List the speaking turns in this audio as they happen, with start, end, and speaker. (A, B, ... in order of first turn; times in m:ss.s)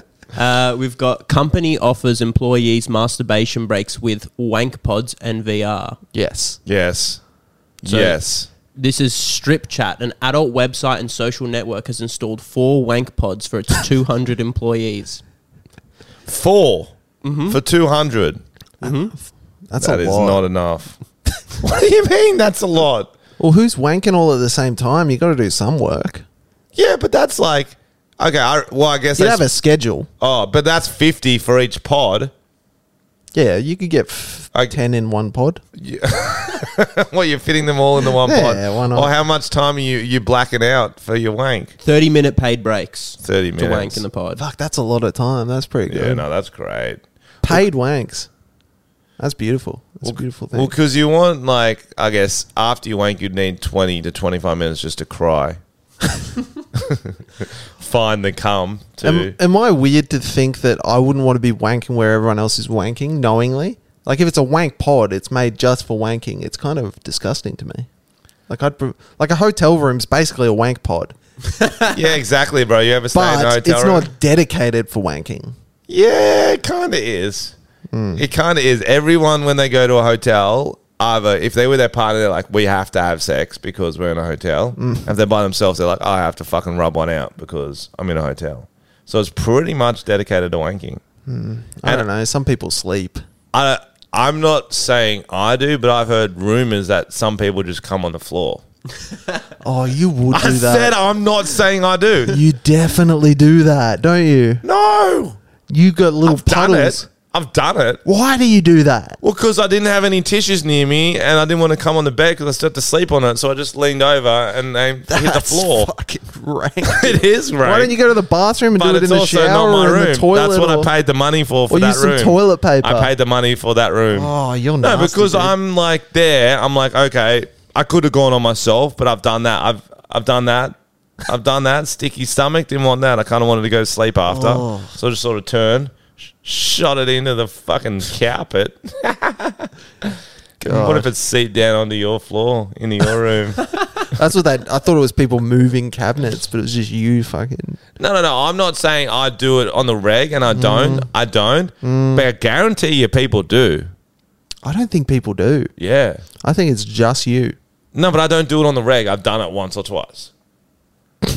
0:00.3-0:06.0 A
0:06.1-0:06.6 B
0:06.6-0:07.2 C
0:07.8-0:08.5 C
0:07.8-0:15.2 A
0:16.2-0:18.4 C
0:17.2-0:17.6 A
0:18.8-0:19.1 A
0:19.7-0:20.4 B
0:19.8-0:21.0 C
0:21.6-0:23.1 C
0:23.4-0:26.2 B
0:26.7-0:29.4 C
0:29.2-0:30.1 B
0:30.2-0:32.3 C
0:33.3-0:35.6 B
0:35.7-0:41.7 C
0:38.2-0:39.1 B
0:41.8-0:44.4 A
0:43.2-0:44.0 C
0:44.4-0:46.2 B
0:45.9-0:47.6 C
0:47.4-0:48.3 B
0:49.2-0:50.7 B
0:50.0-0:55.6 C
0:56.7-0:59.4 C
0:59.0-1:07.9 B
1:08.5-1:11.1 B
1:11.9-1:14.1 C
1:13.1-1:15.5 B
1:15.9-1:17.5 C
1:17.9-1:18.2 B
1:18.2-1:31.0 C
1:24.8-1:25.1 B
1:31.2-1:33.2 B
1:33.5-1:38.6 C
1:39.6-1:41.0 B
1:40.3-1:42.4 C
1:42.3-1:44.6 B
1:44.6-1:45.4 C
1:45.7-1:47.1 B
1:46.2-1:48.0 C
1:48.0-1:49.2 B
1:49.2-1:55.9 C
1:55.1-2:00.9 B
1:56.8-1:58.0 C
1:58.7-2:23.6 C
2:01.7-2:03.1 B
2:04.1-2:05.5 B
2:14.2-2:14.9 B
2:20.6-2:21.1 B
2:24.1-2:27.8 B
2:28.0-2:33.9 C
2:30.5-2:31.1 B
2:31.8-2:32.3 B
2:34.6-2:35.7 B
2:35.8-2:36.2 C
2:36.4-2:37.6 B
2:37.9-2:40.3 C